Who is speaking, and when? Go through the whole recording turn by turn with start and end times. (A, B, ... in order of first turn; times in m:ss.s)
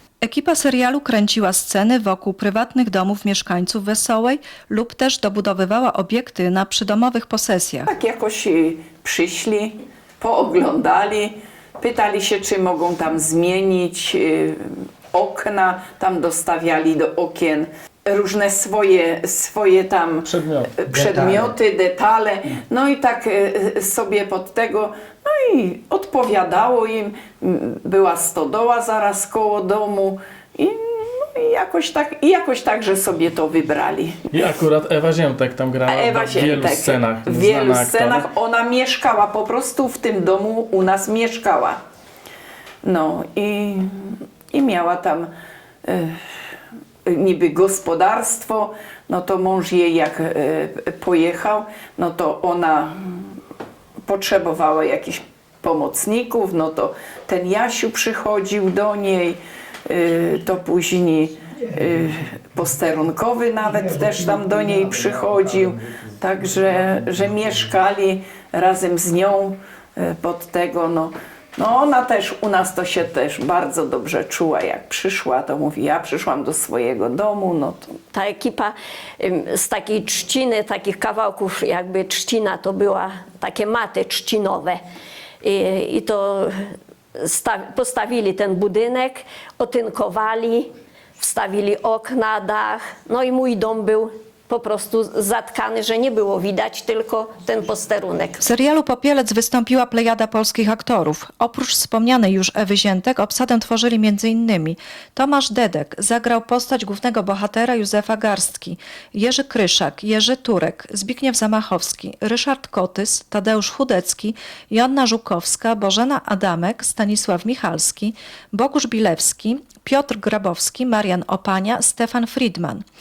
0:00.2-0:07.9 A
0:07.9-0:20.3 B
0:20.3-0:20.9 C
0:20.8-0:34.2 B
0:34.3-0:38.3 C
0:35.9-0:41.8 B
0:42.8-0:45.3 B
0:45.8-0:46.2 B
0:47.1-0:53.3 B
0:54.1-1:18.0 B
1:18.1-1:24.8 D
1:25.4-1:38.4 D
1:38.4-2:02.8 A